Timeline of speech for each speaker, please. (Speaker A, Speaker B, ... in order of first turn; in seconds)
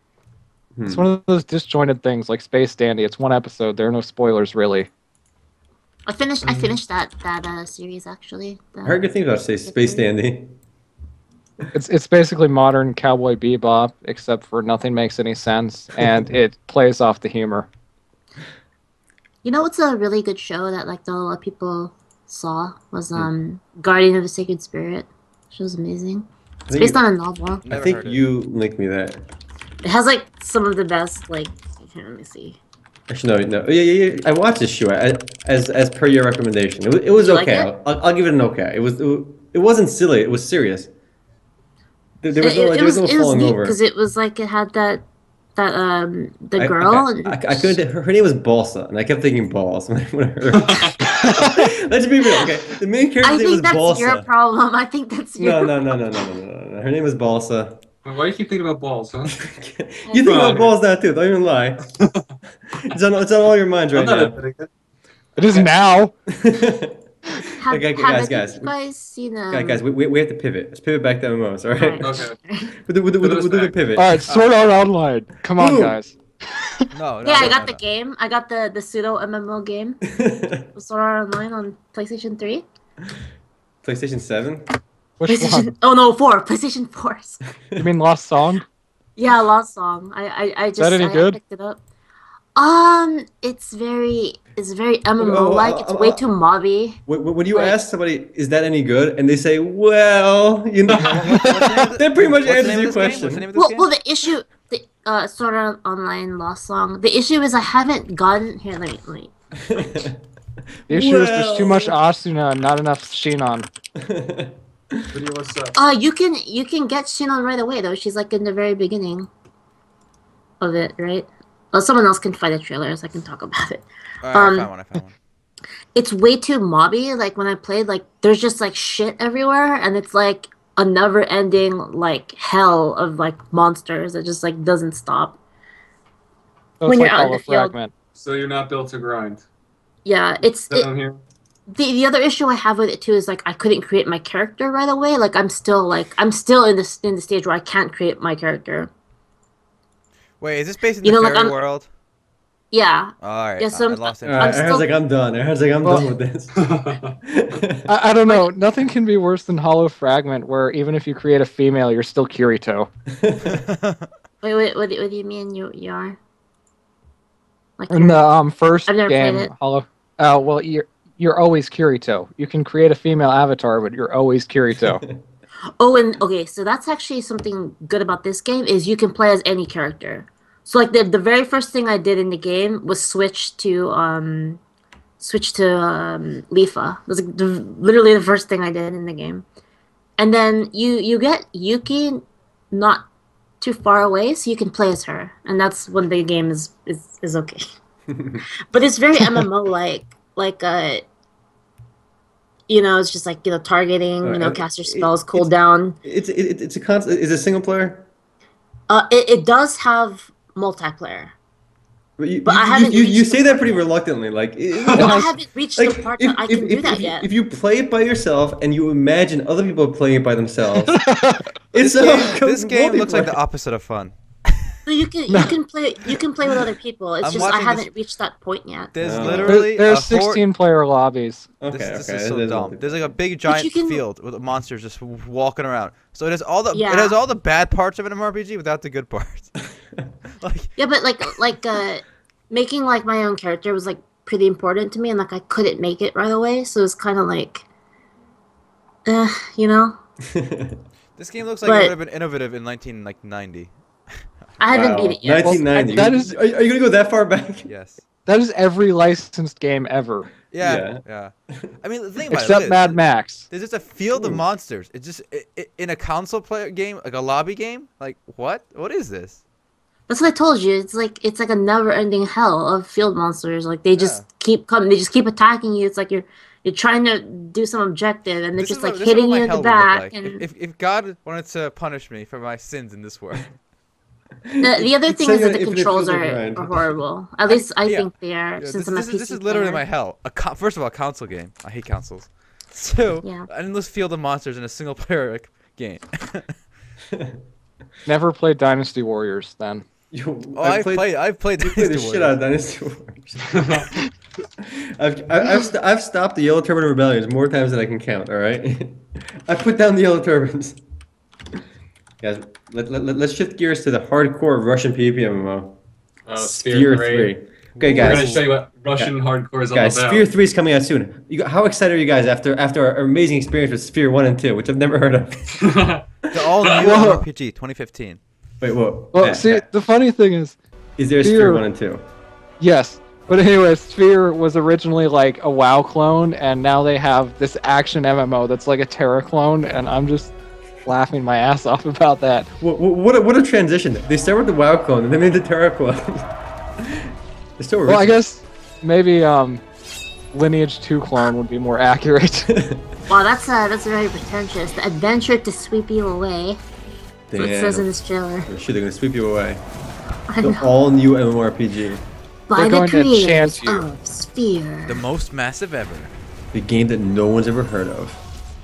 Speaker A: 0.8-1.1, 8.8-10.5, 26.7-27.0, 27.7-29.2, 33.1-40.9, 42.2-43.8, 46.6-54.3, 55.4-57.8, 59.3-61.9, 62.7-64.4, 66.3-67.1, 67.7-68.7, 69.5-72.1, 72.8-74.3, 75.6-76.0, 80.1-80.6, 83.8-84.7, 95.2-96.2, 97.1-103.5, 109.6-110.2, 110.9-112.0, 114.0-115.1, 154.2-157.9, 163.1-163.6, 198.1-198.4, 204.2-205.5, 206.0-208.1, 212.2-221.0, 221.7-223.4, 229.0-229.6, 231.6-233.2, 250.2-250.8, 254.7-257.7, 260.6-261.0, 264.1-264.4, 284.5-286.9, 297.1-297.4, 300.1-303.9, 304.6-310.8, 312.2-315.8, 316.4-318.4, 319.7-325.6, 328.6-329.6, 331.0-332.0, 342.6-348.2, 352.5-352.9, 357.3-357.9, 358.4-359.6, 360.4-362.0, 366.5-368.2
Speaker B: 0.9-4.9, 11.7-17.7, 51.1-51.7, 65.4-66.1, 74.0-76.9, 85.2-85.7, 87.8-88.6, 90.8-91.4, 101.3-101.7, 110.9-113.7, 136.8-137.9, 155.8-156.1, 157.9-162.9, 167.9-175.0, 214.9-215.3, 220.9-221.5, 225.3-225.6, 229.4-231.5, 255.4-256.4, 258.3-260.3, 262.3-263.5, 298.1-299.9, 326.7-327.2, 329.1-330.6, 331.2-331.6, 332.6-340.3, 340.9-342.5, 347.9-349.6, 350.3-352.5, 362.6-363.9
Speaker C: 6.1-9.0, 9.7-10.1, 19.4-26.3, 26.8-27.6, 29.8-32.6, 37.2-37.7, 42.4-45.0, 45.6-47.8, 53.2-55.8, 60.1-60.6, 67.6-69.8, 71.8-72.7, 77.2-80.0, 80.7-82.7, 85.3-87.4, 89.2-91.8, 92.5-97.0, 97.5-97.8, 103.5-109.3, 115.8-119.3, 120.6-124.7, 126.0-135.4, 136.8-137.7, 140.1-140.9, 141.7-148.9, 151.0-151.6, 152.7-154.9, 164.4-166.2, 167.8-168.3, 168.9-169.5, 175.8-184.6, 185.2-189.4, 190.2-193.1, 193.6-197.6, 198.7-201.1, 202.7-206.0, 208.9-211.3, 212.4-213.8, 214.9-217.3, 224.9-228.9, 233.5-234.0, 236.7-237.2, 240.8-247.7, 249.1-250.0, 251.6-252.0, 254.6-256.1, 270.1-280.4, 284.6-289.8, 353.1-356.6, 357.4-358.5, 360.3-360.7, 362.5-365.0
Speaker D: 6.4-6.8, 50.5-51.0, 58.0-59.5, 60.2-60.7, 62.0-62.2, 63.9-64.7, 72.0-72.4, 73.2-73.8, 74.3-74.5, 115.1-115.8, 138.2-139.4, 140.7-141.2, 156.6-157.2, 303.5-303.8, 316.3-317.3, 317.9-320.3, 325.5-326.1
Speaker E: 27.6-28.2, 76.9-77.8, 101.0-103.9, 124.2-125.1, 150.4-151.9, 153.2-154.7, 163.4-164.1, 221.8-224.8, 227.2-227.9, 228.9-230.4, 231.7-239.6, 240.4-240.8, 251.2-253.7, 257.7-258.0, 260.5-269.4, 274.0-274.2, 278.6-283.5, 287.5-296.5, 300.6-302.4, 317.8-318.5, 326.3-328.2, 364.9-366.1